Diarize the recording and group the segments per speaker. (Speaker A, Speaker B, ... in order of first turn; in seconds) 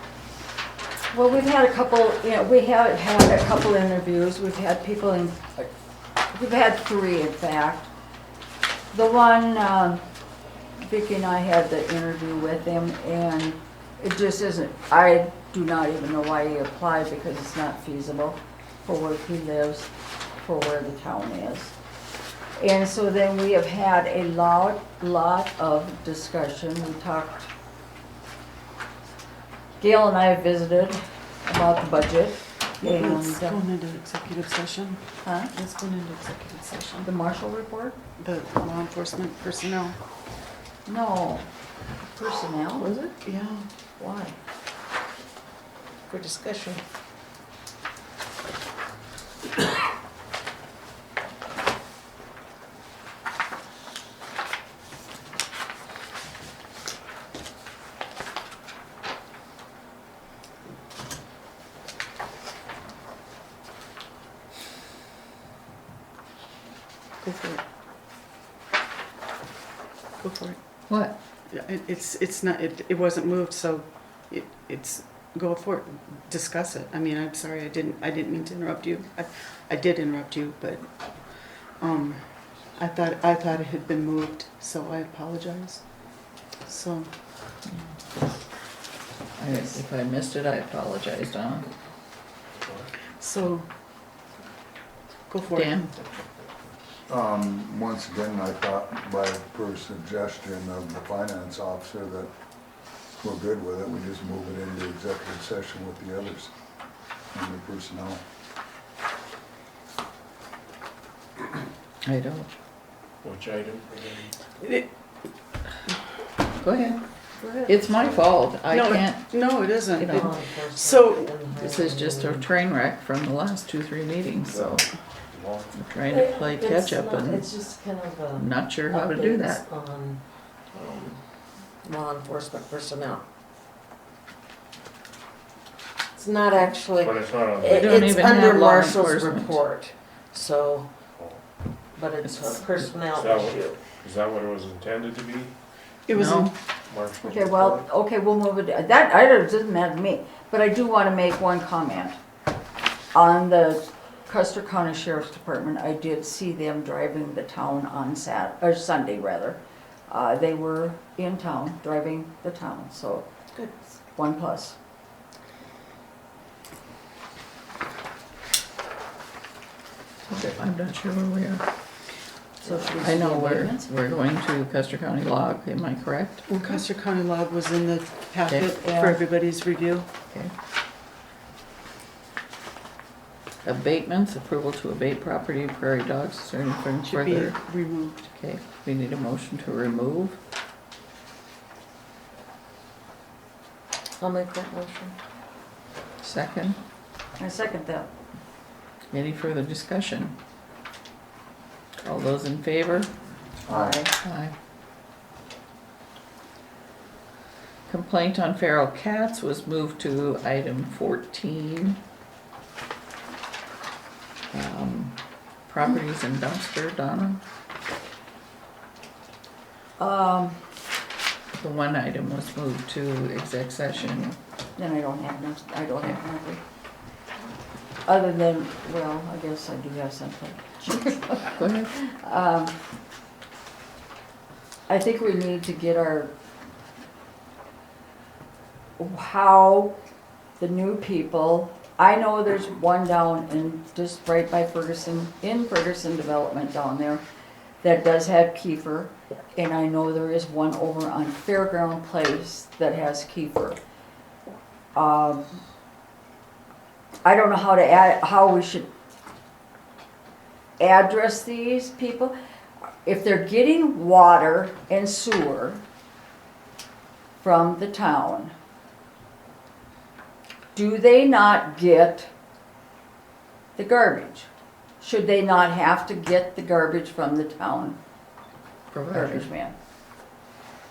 Speaker A: 1.1-5.7, 6.3-7.9, 8.9-10.0, 10.8-19.9, 20.4-21.7, 22.6-27.5, 29.8-33.6, 35.2-35.5, 37.0-38.0, 40.9-41.5, 42.1-42.9, 44.0-44.4, 117.4-117.8, 147.2-152.2, 153.1-163.3, 164.1-164.8, 172.6-173.9, 178.8-179.2, 197.4-198.1, 203.6-204.1, 220.0-220.6, 224.8-226.6, 228.1-232.7, 234.9-236.3, 239.0-239.9, 240.6-247.2, 247.8-253.8, 254.9-255.6, 257.2-258.9, 260.8-262.3, 263.0-265.8, 267.4-268.5, 270.7-272.3, 273.8-274.5, 275.0-278.0, 279.1-279.7
Speaker B: 32.8-37.1, 38.2-40.0, 43.2-43.7, 67.2-67.6, 70.2-70.6, 71.5-82.2, 82.7-86.0, 86.6-87.1, 93.2-93.7, 95.3-95.8, 114.6-114.9, 118.7-121.3, 146.1-146.5, 176.5-180.1, 187.0-188.3
Speaker C: 46.1-46.8, 120.0-122.5, 126.0-130.2, 130.7-131.2, 131.8-133.2, 136.1-140.9, 141.9-143.8, 163.5-163.9, 194.2-195.1
Speaker D: 70.9-71.2, 89.4-91.7, 95.5-95.9, 112.0-112.5, 116.6-117.0, 117.7-120.3, 121.5-124.8, 125.8-127.5, 128.4-129.6, 137.7-139.6, 142.2-142.7, 146.1-146.5, 170.3-171.6, 172.7-176.8, 178.5-178.8, 183.6-187.6, 188.3-190.4, 196.2-196.8, 199.1-200.3, 202.0-203.1, 204.2-204.5, 207.9-212.0, 214.5-215.2, 215.7-217.4, 221.5-224.4, 231.5-231.9, 278.9-279.5
Speaker E: 92.6-92.9, 113.2-114.3, 117.8-118.2, 124.4-125.8, 137.0-138.5, 143.1-145.5, 146.9-147.8
Speaker F: 97.1-102.3, 103.2-106.5, 107.3-108.2, 203.7-204.0